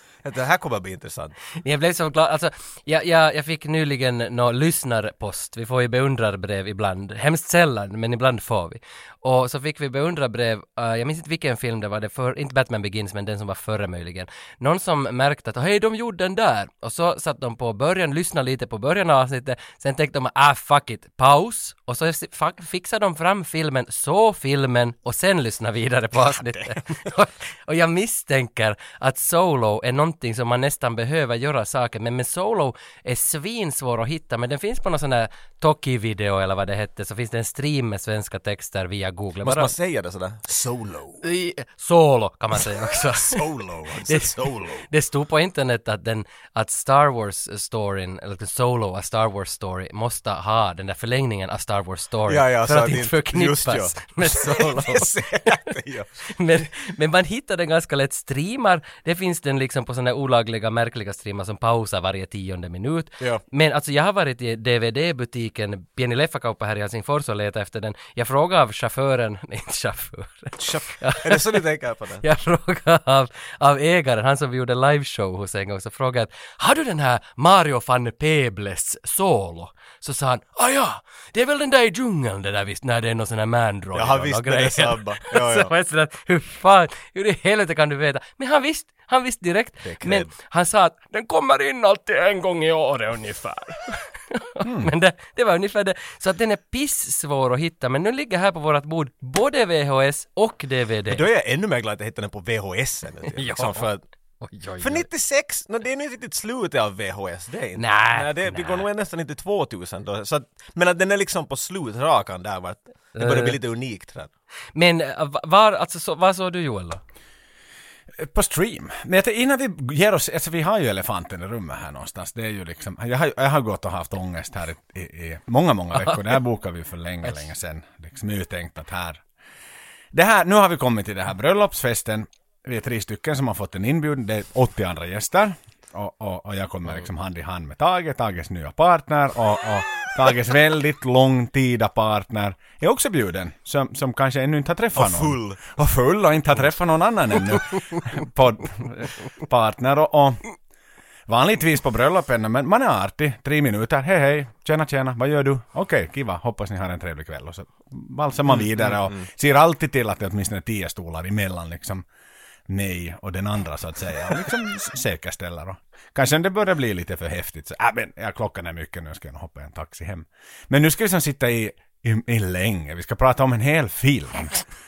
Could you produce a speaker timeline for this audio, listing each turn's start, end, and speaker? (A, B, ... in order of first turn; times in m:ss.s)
0:00.2-0:01.4 A
0:01.6-0:39.7 B
0:26.2-0:26.8 A
0:39.4-0:41.2 A
0:41.2-0:43.4 B
0:43.1-0:44.9 A
0:44.1-0:55.5 B
0:52.3-0:56.1 A
0:56.3-1:11.6 B
1:10.6-1:12.2 A
1:12.2-1:41.2 B
1:24.0-1:25.7 A
1:29.8-1:30.3 A
1:34.6-1:34.9 C
1:41.1-1:44.0 A
1:43.3-1:43.9 B
1:44.4-1:45.1 B
1:44.8-1:54.3 A
1:47.8-1:48.8 B
1:53.2-1:53.6 B
1:54.8-1:57.0 B
1:58.2-2:09.2 C
2:06.0-2:06.3 B
2:10.1-2:30.4 C
2:25.0-2:25.6 A
2:31.3-2:42.0 C
2:38.6-2:39.2 A
2:42.7-2:54.6 C